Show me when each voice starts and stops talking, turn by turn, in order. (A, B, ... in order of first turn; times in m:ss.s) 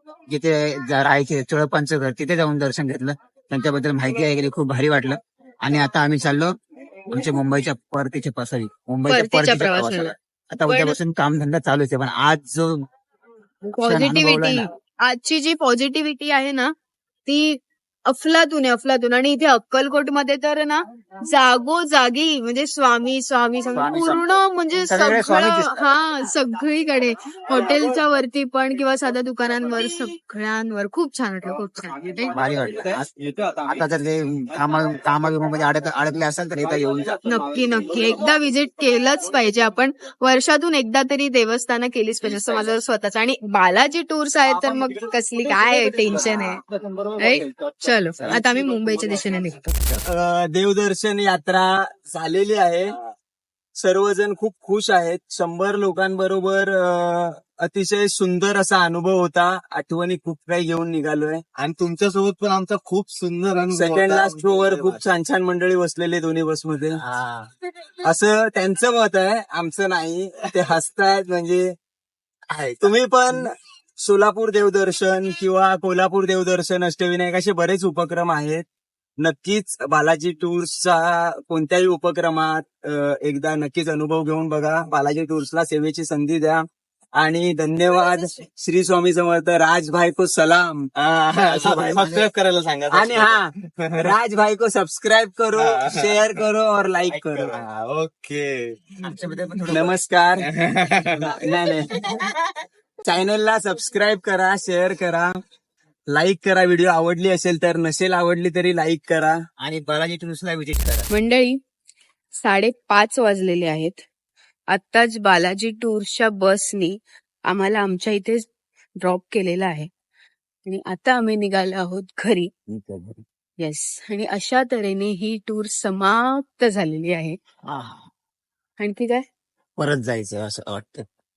0:00.3-0:06.6 A
0:07.1-0:12.9 A
0:09.1-0:10.1 B
0:10.7-0:11.0 B
0:13.6-0:16.7 B
0:13.8-0:14.7 A
0:17.2-0:32.4 B
0:23.7-0:25.8 A
0:32.3-0:33.1 A
0:33.6-0:37.2 A
0:37.2-0:46.6 B
0:47.2-0:49.8 B
0:50.0-0:53.0 C
0:53.8-1:01.4 C
1:01.6-1:03.5 D
1:03.7-1:07.0 C
1:04.0-1:04.8 D
1:07.0-1:07.5 A
1:08.0-1:11.7 C
1:12.5-1:13.0 A
1:12.8-1:18.7 C
1:19.2-1:26.6 C
1:27.2-1:32.3 C
1:31.4-1:32.3 A
1:32.0-1:33.4 D
1:32.9-1:38.6 C
1:35.6-1:36.2 D
1:37.1-1:38.2 D
1:39.0-1:40.0 A
1:39.7-1:40.5 C
1:41.0-1:42.3 C
1:43.0-1:45.4 C
1:46.1-1:49.4 C
1:49.6-1:51.1 A
1:51.1-1:51.6 B
1:52.3-1:54.0 B
1:54.7-1:57.0 B
1:57.5-1:58.5 B
1:59.0-1:59.9 B
2:00.6-2:02.5 B
2:02.7-2:03.2 A
2:03.6-2:07.4 B
2:07.6-2:08.1 A
2:08.8-2:09.2 B
2:09.8-2:11.1 A